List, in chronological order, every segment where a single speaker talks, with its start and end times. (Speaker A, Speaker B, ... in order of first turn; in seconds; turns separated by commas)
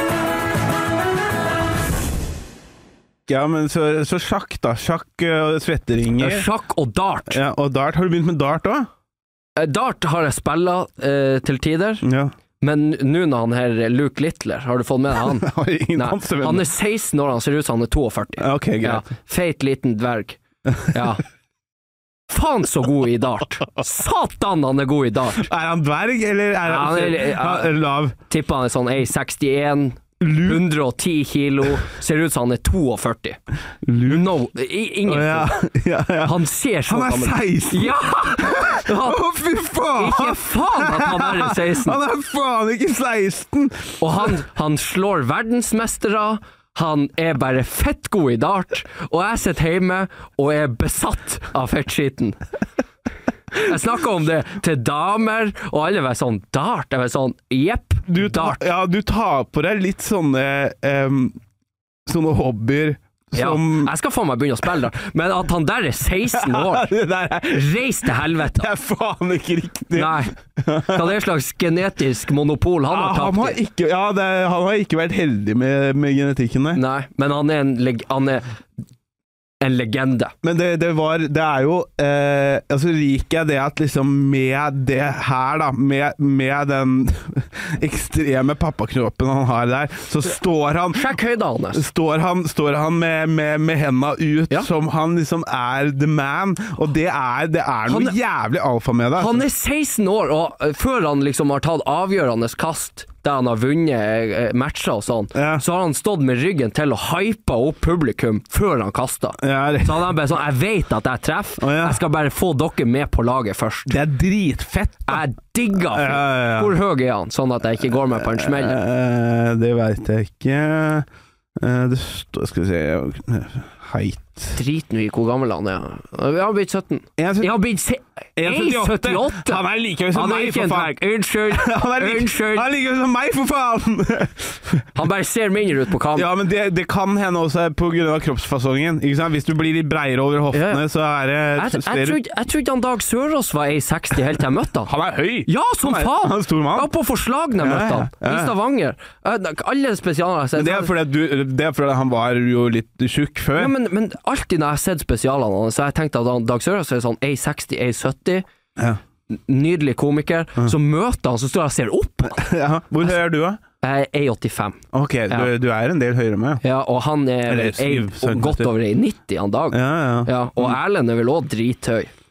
Speaker A: 3.3-6.5, Speaker B: 6.2-7.4, Speaker A: 7.3-8.9, Speaker B: 9.6-12.1, Speaker A: 12.0-12.3, Speaker B: 12.6-21.2, Speaker A: 15.2-16.7, Speaker A: 18.4-19.1, Speaker A: 20.7-21.0, Speaker B: 22.3-25.4, Speaker A: 25.4-28.2, Speaker B: 26.7-27.7, Speaker B: 28.3-33.4, Speaker A: 30.2-30.7, Speaker A: 33.8-34.3, Speaker B: 34.1-35.6, Speaker A: 35.1-44.4, Speaker B: 36.2-39.2, Speaker B: 40.0-42.0, Speaker B: 44.0-52.4, Speaker B: 53.5-58.6, Speaker A: 58.1-61.4, Speaker A: 62.1-63.9, Speaker B: 63.4-66.9, Speaker A: 66.3-71.2, Speaker B: 67.5-68.7, Speaker B: 69.9-70.3, Speaker B: 70.9-73.6, Speaker A: 72.9-76.8, Speaker B: 76.7-78.5, Speaker B: 79.6-80.3, Speaker A: 80.4-91.2, Speaker B: 90.9-91.8, Speaker A: 91.7-99.4, Speaker B: 97.9-98.2, Speaker B: 99.2-114.0, Speaker A: 105.3-105.6, Speaker A: 109.4-110.1, Speaker A: 111.6-112.0, Speaker A: 113.9-116.7, Speaker B: 115.1-118.8, Speaker A: 118.2-124.6, Speaker B: 124.5-132.7, Speaker A: 127.2-127.5, Speaker A: 128.4-131.0, Speaker A: 131.5-134.9, Speaker B: 135.0-136.3, Speaker A: 136.1-142.2, Speaker B: 140.5-140.8, Speaker B: 141.6-144.9, Speaker A: 144.9-146.9, Speaker B: 145.5-150.9, Speaker A: 147.6-148.5, Speaker A: 150.6-153.7, Speaker B: 153.6-158.4, Speaker B: 159.3-162.4, Speaker A: 162.4-163.6, Speaker B: 163.8-165.5, Speaker A: 164.9-166.6, Speaker B: 166.6-172.1, Speaker A: 167.5-168.7, Speaker A: 169.7-170.8